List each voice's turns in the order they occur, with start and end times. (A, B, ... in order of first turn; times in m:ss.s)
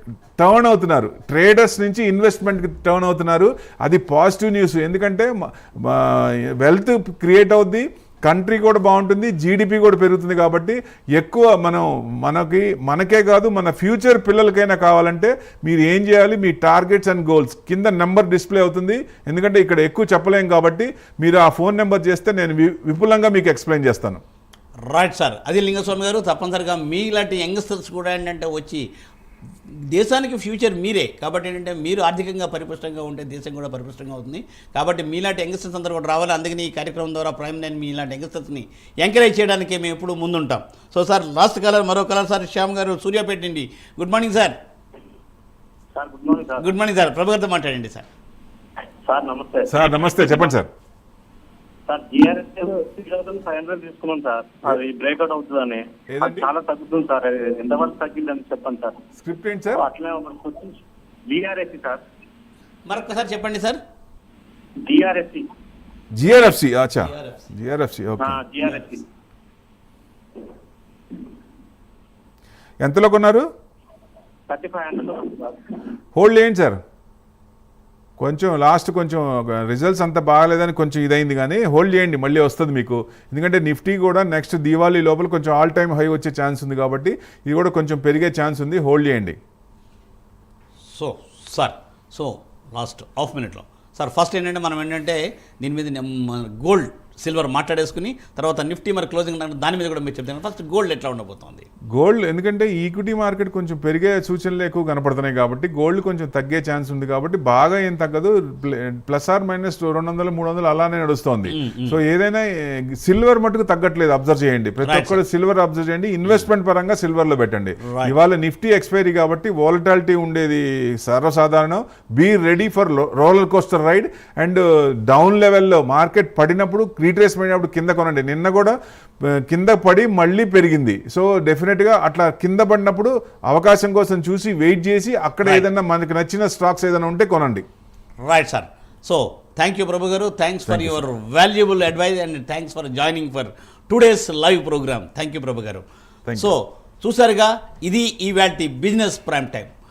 0:00.4-0:24.2 A
0:24.9-0:28.8 B
0:29.9-0:44.6 B
0:45.9-0:46.7 C
0:46.6-0:48.1 B
0:49.0-0:50.5 C
0:49.7-0:50.7 A
0:51.9-0:59.0 C
0:56.1-0:56.5 A
0:59.2-0:59.8 A
0:59.8-1:00.8 C
1:01.3-1:02.0 C
1:02.9-1:03.8 B
1:04.8-1:05.4 C
1:06.2-1:08.4 A
1:07.0-1:07.4 B
1:08.2-1:09.0 C
1:12.8-1:13.5 A
1:14.5-1:15.6 C
1:16.2-1:16.8 A
1:18.2-1:29.4 A
1:30.8-1:41.7 B
1:41.9-2:17.6 A
1:51.5-1:52.0 B
1:54.8-1:55.2 B
1:57.8-1:58.1 B
2:15.4-2:15.7 B
2:18.2-2:25.8 B
2:20.7-2:21.0 A
2:26.3-2:26.6 A
2:26.4-2:29.7 B